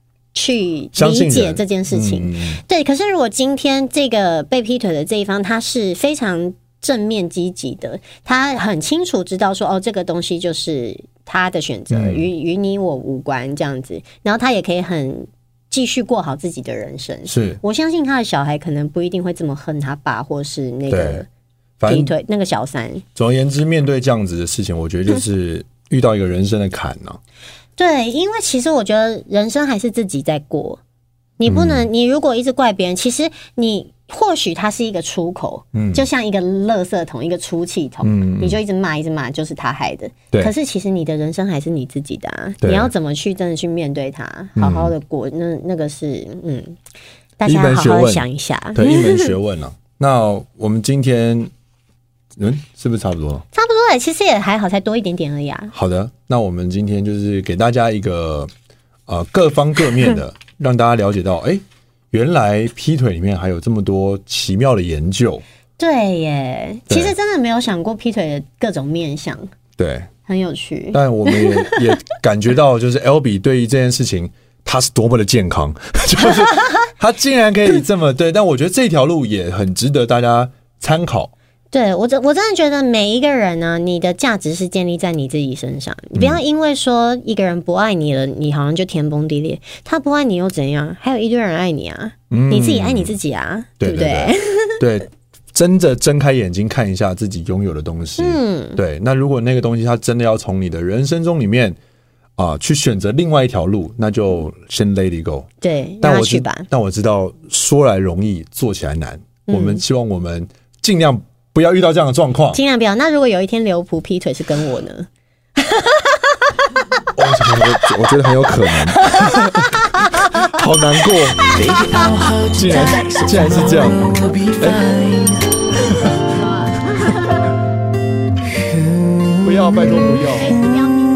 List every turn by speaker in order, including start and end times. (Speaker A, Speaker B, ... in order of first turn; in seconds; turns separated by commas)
Speaker A: 0.3-21.3, Speaker B: 0.9-2.6, Speaker B: 11.9-12.3, Speaker B: 17.3-17.6, Speaker B: 20.9-21.2, Speaker B: 21.8-22.1, Speaker A: 21.9-23.0, Speaker B: 23.1-27.2, Speaker A: 27.8-30.8, Speaker A: 31.4-46.8, Speaker B: 31.5-31.9, Speaker B: 35.7-36.0, Speaker B: 38.0-38.6, Speaker B: 42.6-42.9, Speaker B: 44.5-44.9, Speaker A: 47.4-49.3, Speaker B: 47.4-51.5, Speaker B: 52.4-53.4, Speaker A: 53.5-55.7, Speaker B: 55.7-58.5, Speaker B: 59.1-65.4, Speaker A: 65.8-69.5, Speaker B: 66.9-67.1, Speaker B: 69.8-70.1, Speaker A: 70.3-71.8, Speaker B: 70.9-81.3, Speaker A: 81.7-94.8, Speaker B: 86.2-86.4, Speaker B: 92.3-93.2, Speaker B: 93.8-101.8, Speaker A: 98.2-98.8, Speaker B: 102.4-105.5, Speaker A: 105.6-106.7, Speaker B: 106.0-112.6, Speaker A: 109.5-109.8, Speaker A: 112.5-117.1, Speaker B: 117.1-121.4, Speaker A: 118.9-120.5, Speaker C: 121.5-125.9, Speaker B: 122.5-124.8, Speaker B: 129.4-130.6, Speaker A: 130.5-130.9